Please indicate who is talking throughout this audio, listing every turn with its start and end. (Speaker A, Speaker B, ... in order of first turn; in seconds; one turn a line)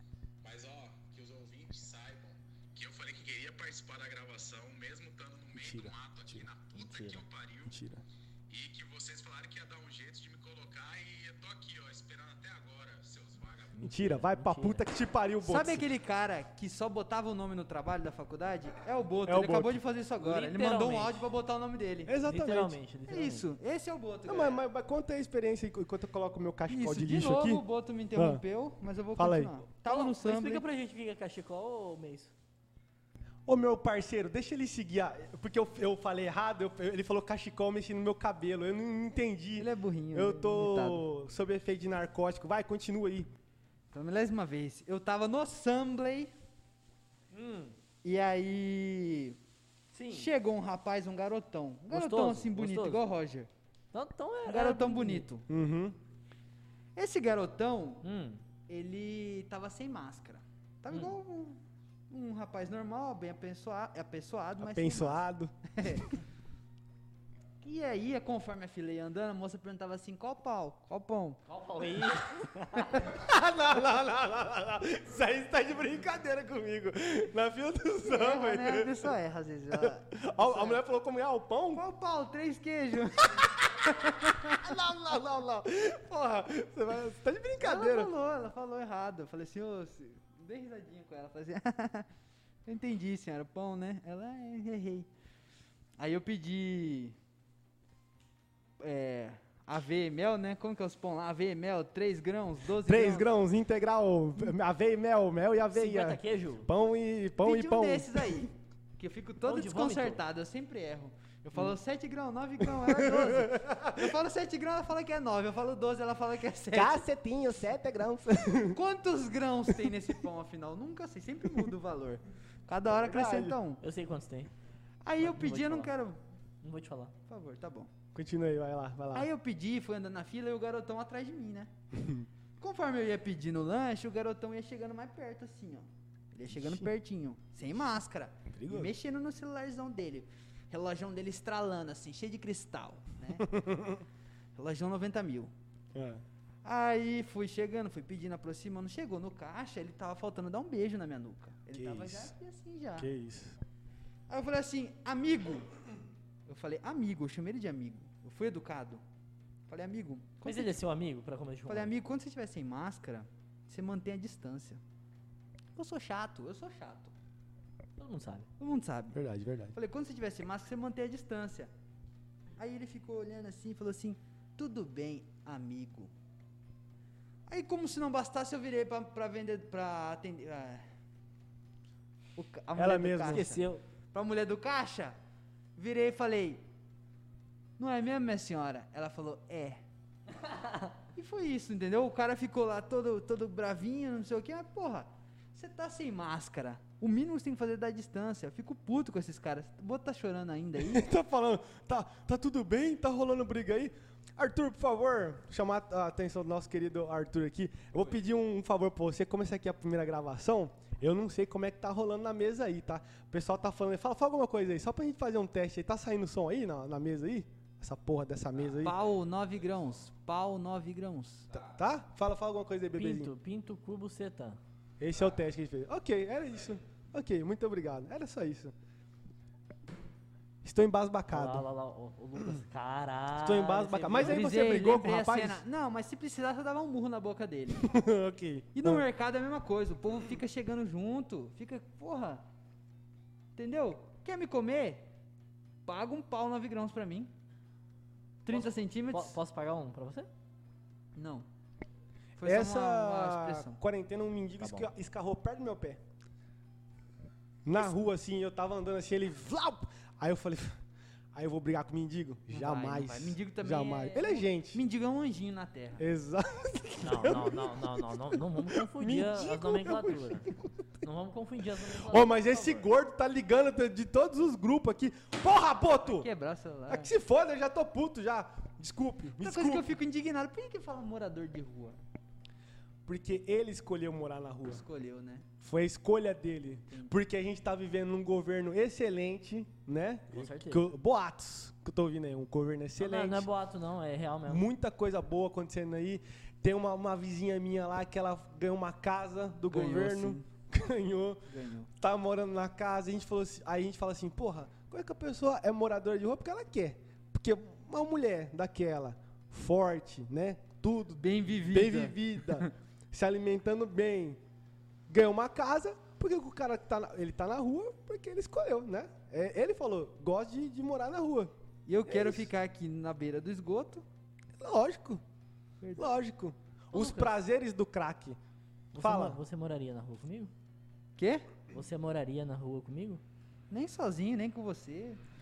Speaker A: 0.4-7.7
Speaker B: 5.5-6.5
Speaker C: 6.8-7.2
Speaker B: 7.7-8.0
Speaker A: 8.5-13.8
Speaker C: 13.8-14.8
Speaker B: 13.8-15.8
Speaker D: 15.4-22.1
Speaker B: 19.2-19.8
Speaker C: 20.2-21.2
Speaker B: 22.1-22.8
Speaker C: 22.2-23.4
Speaker D: 23.1-24.6
Speaker B: 24.2-27.6
Speaker D: 26.7-30.6
Speaker B: 28.1-28.4
Speaker B: 29.2-29.6
Speaker C: 29.8-32.3
Speaker B: 33.5-43.3
Speaker D: 39.5-41.0
Speaker D: 43.9-46.3
Speaker C: 47.3-47.8
Speaker D: 48.0-49.4
Speaker C: 49.9-50.3
Speaker D: 50.1-53.5
Speaker C: 51.9-53.0
Speaker C: 53.9-55.3
Speaker D: 54.4-55.5
Speaker B: 55.5-56.0
Speaker D: 57.0-58.0
Speaker C: 58.0-58.4
Speaker D: 58.7-66.1
Speaker B: 64.6-66.0
Speaker D: 67.6-71.4
Speaker C: 71.5-73.0
Speaker D: 72.8-73.0
Speaker B: 73.0-79.1
Speaker D: 78.0-80.8
Speaker B: 79.7-81.8
Speaker D: 81.7-84.7
Speaker B: 84.5-88.1
Speaker D: 87.6-92.1
Speaker D: 92.7-95.1
Speaker D: 96.0-97.2
Speaker D: 98.8-103.3
Speaker B: 102.8-108.5
Speaker C: 105.7-106.7
Speaker D: 107.4-117.0
Speaker C: 109.4-110.2
Speaker B: 112.7-114.2
Speaker B: 116.7-118.8
Speaker D: 118.7-123.8
Speaker B: 122.8-123.6
Speaker C: 123.8-124.5
Speaker D: 125.0-126.2
Speaker C: 125.2-125.9
Speaker C: 126.6-127.1
Speaker D: 127.3-127.9
Speaker B: 128.1-129.3
Speaker D: 129.1-131.7
Speaker B: 131.9-132.2
Speaker D: 132.6-143.5
Speaker B: 136.5-136.9
Speaker B: 138.5-138.9
Speaker B: 143.4-144.0
Speaker D: 144.6-145.5
Speaker B: 145.9-146.2
Speaker D: 146.6-153.1
Speaker B: 151.7-152.3
Speaker B: 153.0-153.6
Speaker D: 154.3-155.7
Speaker D: 156.5-159.0
Speaker D: 159.7-160.8
Speaker C: 160.4-161.9
Speaker D: 161.7-164.8
Speaker D: 165.8-167.1
Speaker C: 168.0-168.5
Speaker D: 168.6-169.2
Speaker B: 169.1-169.8
Speaker D: 169.7-171.7
Speaker D: 172.6-176.1
Speaker D: 177.5-180.8
Speaker D: 182.4-185.1
Speaker B: 182.7-183.5
Speaker C: 183.3-183.8
Speaker D: 185.8-186.6
Speaker D: 187.8-189.8
Speaker C: 190.4-190.9
Speaker D: 191.1-201.0
Speaker B: 200.8-219.0
Speaker D: 218.8-221.5
Speaker B: 221.5-223.3
Speaker C: 222.9-224.6
Speaker B: 225.0-228.7
Speaker B: 230.6-231.6
Speaker C: 231.3-234.4
Speaker B: 233.3-235.6
Speaker D: 234.1-237.8
Speaker B: 237.8-239.0
Speaker D: 238.7-242.4
Speaker D: 243.6-245.1
Speaker D: 245.8-247.3
Speaker D: 248.4-249.4
Speaker C: 248.5-250.3
Speaker D: 251.2-251.4
Speaker D: 252.4-253.8
Speaker B: 252.4-256.0
Speaker C: 254.6-254.9
Speaker B: 257.6-260.8
Speaker B: 261.3-264.8
Speaker D: 262.5-266.0
Speaker B: 266.0-270.8
Speaker C: 267.0-270.5
Speaker C: 271.0-272.9
Speaker B: 271.8-276.3
Speaker D: 276.0-277.1
Speaker B: 276.9-279.9
Speaker D: 279.4-282.0
Speaker B: 283.1-284.8
Speaker D: 284.7-285.4
Speaker B: 285.6-293.5
Speaker D: 286.9-287.1
Speaker C: 290.3-290.9
Speaker C: 293.0-294.6
Speaker B: 294.5-301.4
Speaker D: 299.7-300.4
Speaker D: 301.5-301.9
Speaker B: 302.0-314.4
Speaker D: 311.2-312.7
Speaker B: 315.1-321.5
Speaker D: 321.9-324.0
Speaker B: 322.1-322.5
Speaker B: 324.6-325.2
Speaker B: 325.9-328.4
Speaker C: 328.9-330.5
Speaker B: 329.0-329.4
Speaker D: 331.2-331.4
Speaker C: 331.7-333.2
Speaker D: 333.7-335.2